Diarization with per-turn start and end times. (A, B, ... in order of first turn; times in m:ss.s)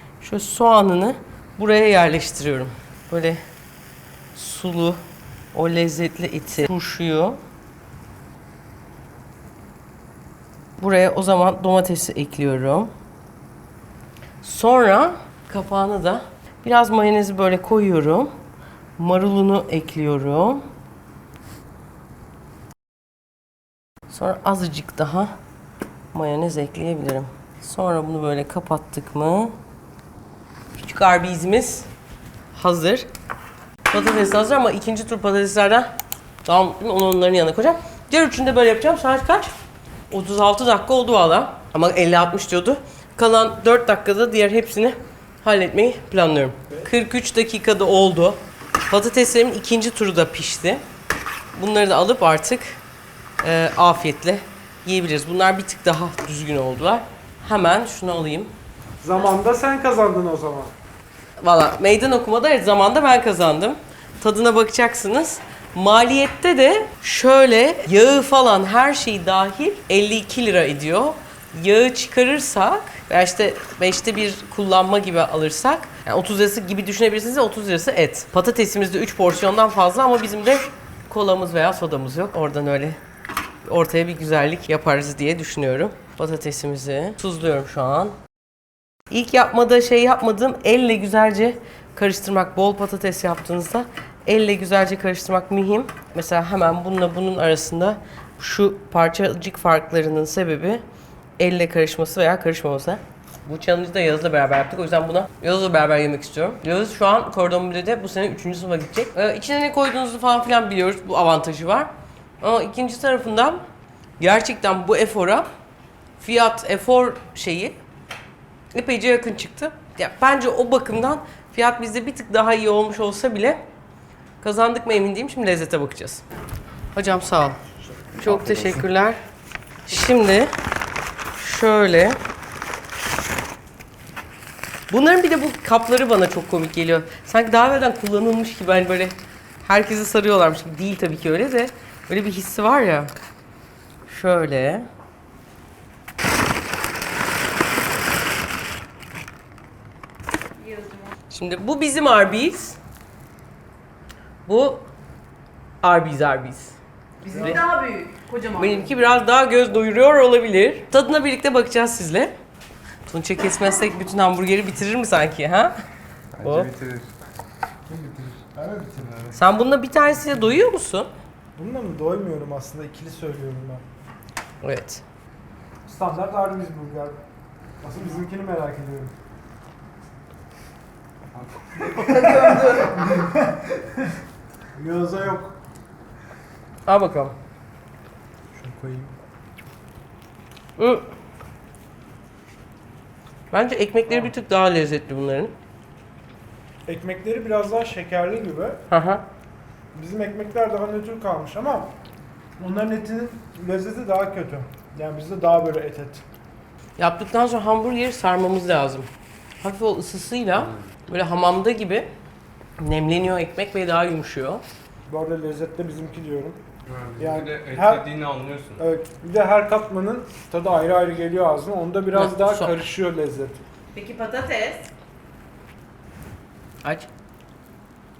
0:00.2-0:03.4 A
0:04.3-0:05.0 A
0:05.5-0:07.4 A
0:10.8-0:12.9 A
0:14.4-0:18.3 A
0:19.0-0:20.6 A
0:24.1-0:25.3 A
0:26.1-0:29.5 A
0:30.8-0:31.9 A
0:32.5-0:33.1 A
0:33.9-0:35.9 A
0:36.4-0:39.5 A
0:40.1-0:50.8 A
0:51.6-0:52.8 A
0:53.4-0:58.5 A
0:59.0-1:00.7 B
1:01.4-1:23.0 A
1:23.7-1:28.2 A
1:29.1-1:40.8 A
1:41.4-1:53.6 A
1:54.2-1:55.5 A
1:56.2-1:57.8 A
1:58.7-2:03.6 A
2:04.4-2:06.2 A
2:06.9-2:07.6 A
2:08.1-2:09.2 A
2:09.8-2:10.5 A
2:11.3-2:12.2 A
2:14.9-2:23.1 A
2:24.1-2:24.9 A
2:30.6-2:31.0 C
2:31.3-2:32.8 A
2:34.4-2:34.9 A
2:35.8-2:36.7 A
2:37.2-2:38.9 C
2:38.5-2:42.3 A
2:43.1-2:45.8 A
2:46.4-2:47.1 D
2:46.4-2:46.7 A
2:47.9-2:49.3 D
2:47.9-2:49.3 B
2:49.3-2:51.1 A
2:51.6-2:53.8 B
2:54.6-2:55.0 A
2:55.8-2:57.2 B
2:57.8-2:59.1 B
3:01.3-3:03.9 B
3:02.2-3:02.9 C
3:04.8-3:05.5 B
3:06.8-3:07.4 A
3:08.5-3:09.1 B
3:10.8-3:11.0 A
3:13.5-3:15.5 A
3:16.9-3:18.8 B
3:18.9-3:19.2 A
3:19.9-3:21.9 B
3:22.6-3:26.2 B
3:27.0-3:29.1 A
3:29.6-3:32.1 A
3:32.8-3:34.6 A
3:35.1-3:36.6 B
3:36.9-3:38.8 D
3:37.2-3:38.0 B
3:38.8-3:43.6 B
3:42.1-3:42.7 A
3:43.9-3:44.8 C
3:46.8-3:47.1 A